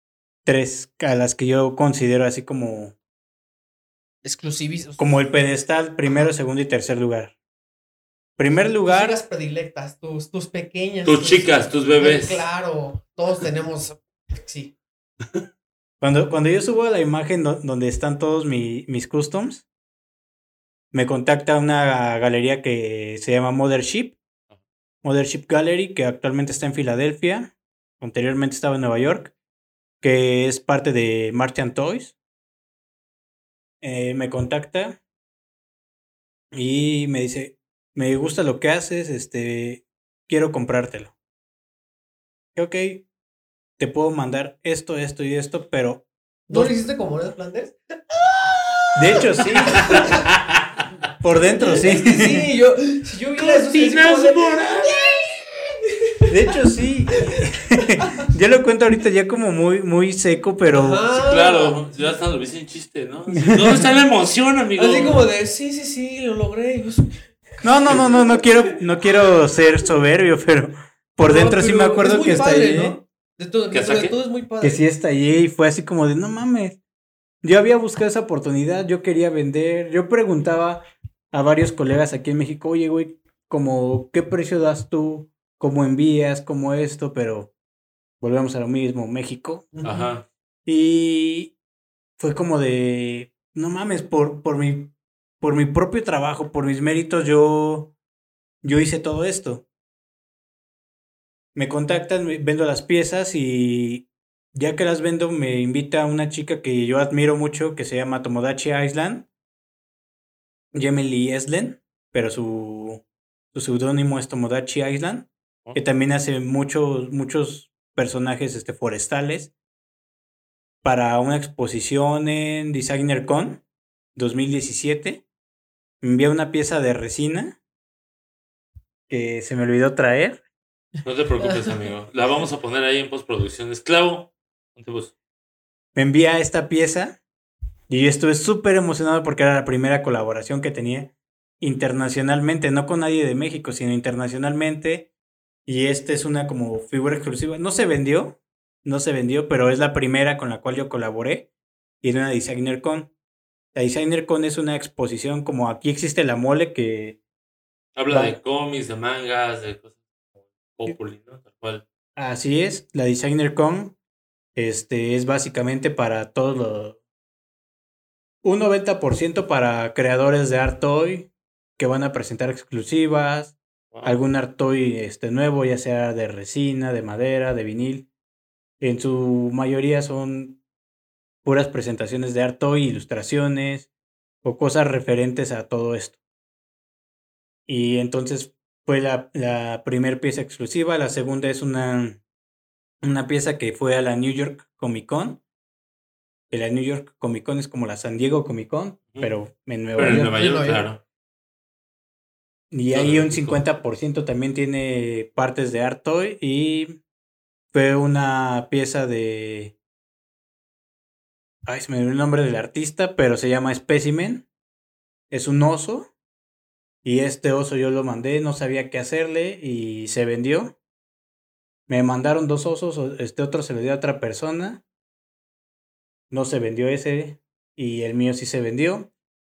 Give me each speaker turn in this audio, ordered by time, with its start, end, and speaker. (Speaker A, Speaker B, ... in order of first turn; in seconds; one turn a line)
Speaker A: 0.5-3.0
Speaker B: 4.2-5.2
Speaker A: 5.0-7.3
Speaker A: 8.4-9.2
Speaker B: 8.8-14.8
Speaker C: 11.1-12.4
Speaker A: 16.0-19.7
Speaker A: 20.9-24.2
Speaker A: 25.0-29.3
Speaker A: 30.0-32.2
Speaker A: 33.8-35.0
Speaker A: 36.5-41.1
Speaker A: 42.5-43.1
Speaker A: 43.8-46.7
Speaker B: 46.5-50.3
Speaker A: 49.0-50.0
Speaker C: 49.9-50.8
Speaker A: 51.2-52.5
Speaker B: 51.3-56.3
Speaker C: 53.4-55.0
Speaker A: 56.3-61.0
Speaker B: 58.0-58.3
Speaker B: 60.7-62.2
Speaker C: 61.1-65.2
Speaker B: 64.8-67.2
Speaker A: 67.6-73.0
Speaker B: 67.9-68.7
Speaker B: 71.2-74.8
Speaker C: 73.7-74.2
Speaker A: 74.6-76.8
Speaker A: 77.4-87.5
Speaker A: 88.2-89.7
Speaker B: 89.8-90.1
Speaker C: 89.8-90.3
Speaker A: 90.7-91.5
Speaker A: 92.2-98.0
Speaker A: 98.6-99.7
Speaker A: 101.5-109.3
Speaker A: 110.7-119.5
Speaker A: 120.8-123.6
Speaker A: 124.2-125.2
Speaker A: 126.0-127.6
Speaker A: 129.1-130.4
Speaker C: 131.0-135.1
Speaker B: 131.4-131.8
Speaker A: 135.9-137.2
Speaker A: 137.9-145.1
Speaker A: 145.7-151.5
Speaker A: 152.0-153.1
Speaker A: 153.7-157.2
Speaker C: 158.0-160.0
Speaker A: 158.1-158.4
Speaker C: 160.7-161.8
Speaker A: 162.2-164.0
Speaker A: 164.6-167.0
Speaker A: 168.4-178.1
Speaker C: 173.9-174.2
Speaker A: 178.8-180.6
Speaker A: 181.4-183.9
Speaker A: 184.4-186.2
Speaker A: 187.7-192.2
Speaker A: 193.0-195.4
Speaker A: 196.5-200.3
Speaker C: 200.0-201.0
Speaker B: 200.0-200.9
Speaker A: 202.7-207.0
Speaker C: 202.9-203.6
Speaker A: 207.7-209.8
Speaker A: 211.7-214.5
Speaker A: 215.3-216.1
Speaker A: 217.0-220.8
Speaker A: 221.9-224.8
Speaker A: 226.3-229.1